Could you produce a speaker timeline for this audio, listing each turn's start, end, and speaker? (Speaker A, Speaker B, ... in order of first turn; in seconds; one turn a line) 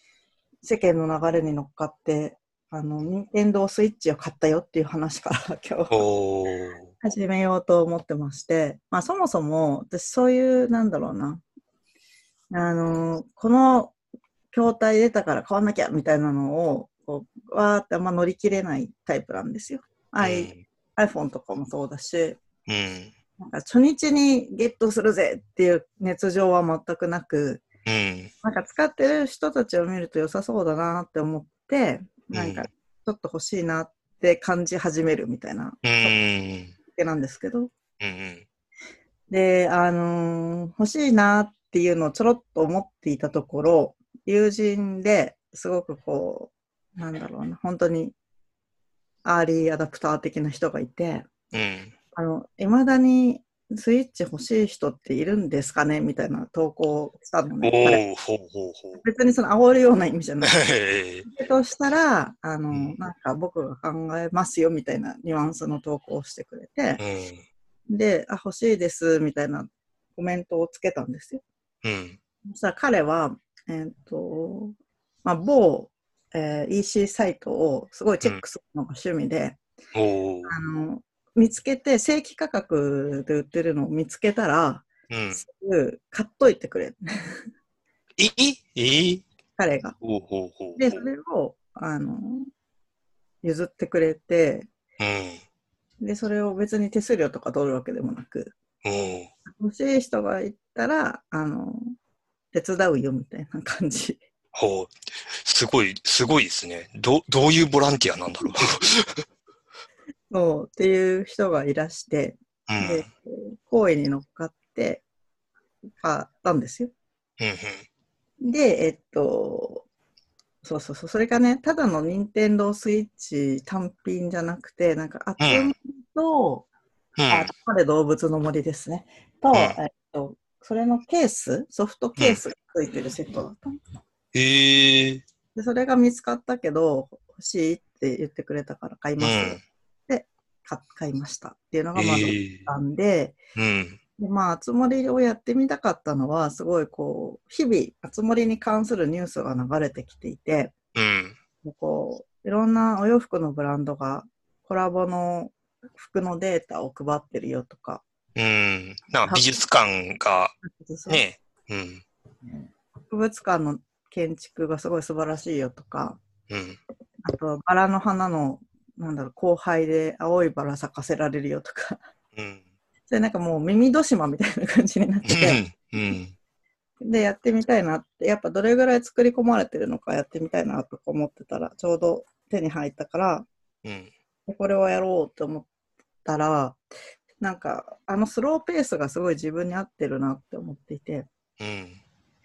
Speaker A: 0.6-6.0
Speaker B: 5.9-6.9
Speaker A: 7.0-11.4
Speaker A: 12.5-13.9
Speaker A: 14.5-22.4
Speaker B: 20.2-20.6
Speaker B: 22.7-23.1
Speaker A: 23.4-27.6
Speaker B: 27.9-28.3
Speaker A: 28.4-36.2
Speaker B: 32.3-32.6
Speaker B: 35.8-36.7
Speaker A: 36.9-37.7
Speaker B: 38.0-38.4
Speaker A: 39.3-48.1
Speaker A: 49.2-51.3
Speaker B: 51.5-51.9
Speaker A: 52.1-58.0
Speaker B: 57.6-59.0
Speaker A: 59.0-60.6
Speaker B: 60.4-61.2
Speaker A: 61.2-67.0
Speaker B: 62.7-63.0
Speaker B: 67.0-67.4
Speaker A: 67.9-71.4
Speaker B: 71.8-72.2
Speaker A: 72.5-74.7
Speaker A: 75.2-79.6
Speaker B: 79.9-80.5
Speaker A: 80.4-87.3
Speaker B: 85.1-85.4
Speaker B: 88.2-89.2
Speaker A: 89.6-90.0
Speaker B: 90.0-91.0
Speaker A: 90.8-92.5
Speaker A: 93.4-94.7
Speaker B: 95.0-95.4
Speaker A: 96.0-98.5
Speaker B: 98.8-99.3
Speaker A: 99.5-101.9
Speaker A: 102.5-104.2
Speaker B: 104.5-109.2
Speaker A: 110.3-115.0
Speaker B: 112.7-113.1
Speaker A: 116.0-116.9
Speaker B: 117.4-117.8
Speaker A: 118.4-119.8
Speaker A: 120.6-126.7
Speaker B: 125.4-125.7
Speaker B: 127.2-127.5
Speaker A: 127.3-133.8
Speaker B: 134.3-135.2
Speaker A: 135.5-143.4
Speaker B: 139.2-139.6
Speaker B: 141.9-142.7
Speaker B: 143.6-144.0
Speaker A: 144.2-150.7
Speaker B: 150.9-151.3
Speaker A: 151.6-158.0
Speaker B: 158.3-160.5
Speaker A: 160.6-161.2
Speaker B: 161.1-162.0
Speaker A: 163.1-166.2
Speaker B: 166.5-166.8
Speaker A: 167.2-172.0
Speaker B: 172.3-172.6
Speaker A: 173.1-175.6
Speaker B: 175.2-176.3
Speaker A: 177.0-183.5
Speaker B: 183.8-184.1
Speaker A: 184.5-185.7
Speaker A: 186.2-186.8
Speaker A: 187.4-191.3
Speaker B: 191.6-192.0